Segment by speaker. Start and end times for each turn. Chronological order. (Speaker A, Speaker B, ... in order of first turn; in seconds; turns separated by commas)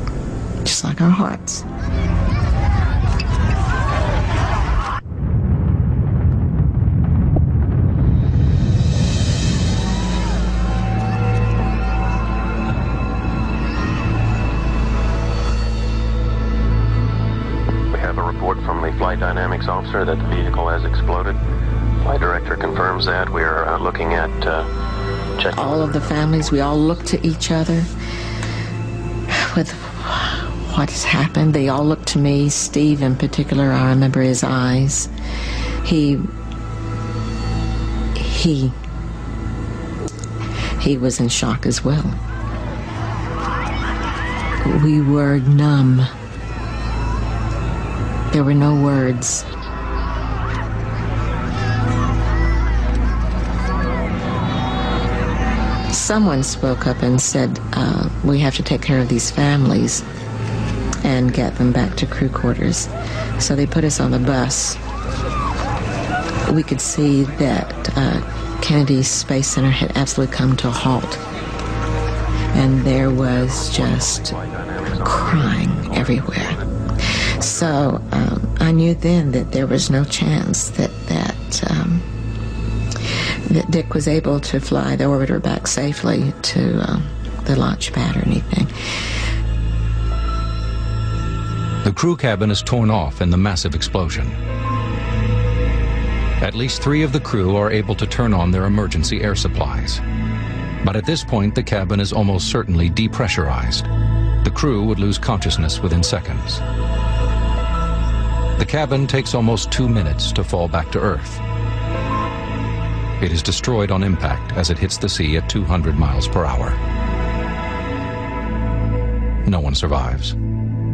Speaker A: 0.6-1.6, Speaker B: 17.9-21.4, Speaker B: 22.0-24.7, Speaker B: 25.4-26.9, Speaker A: 25.5-27.9, Speaker A: 29.3-35.1, Speaker A: 35.8-36.2, Speaker A: 38.1-38.7, Speaker A: 40.8-42.2, Speaker A: 44.6-46.1, Speaker A: 48.3-49.4, Speaker A: 55.9-60.0, Speaker A: 61.0-64.8, Speaker A: 66.5-71.2, Speaker A: 72.5-74.4, Speaker B: 73.6-76.7, Speaker A: 75.0-76.6, Speaker A: 77.2-82.0, Speaker A: 83.5-88.7, Speaker C: 91.8-94.4, Speaker C: 96.4-100.0, Speaker C: 100.8-103.9, Speaker C: 104.4-106.6, Speaker C: 108.6-111.4, Speaker C: 113.2-116.8, Speaker C: 119.5-120.4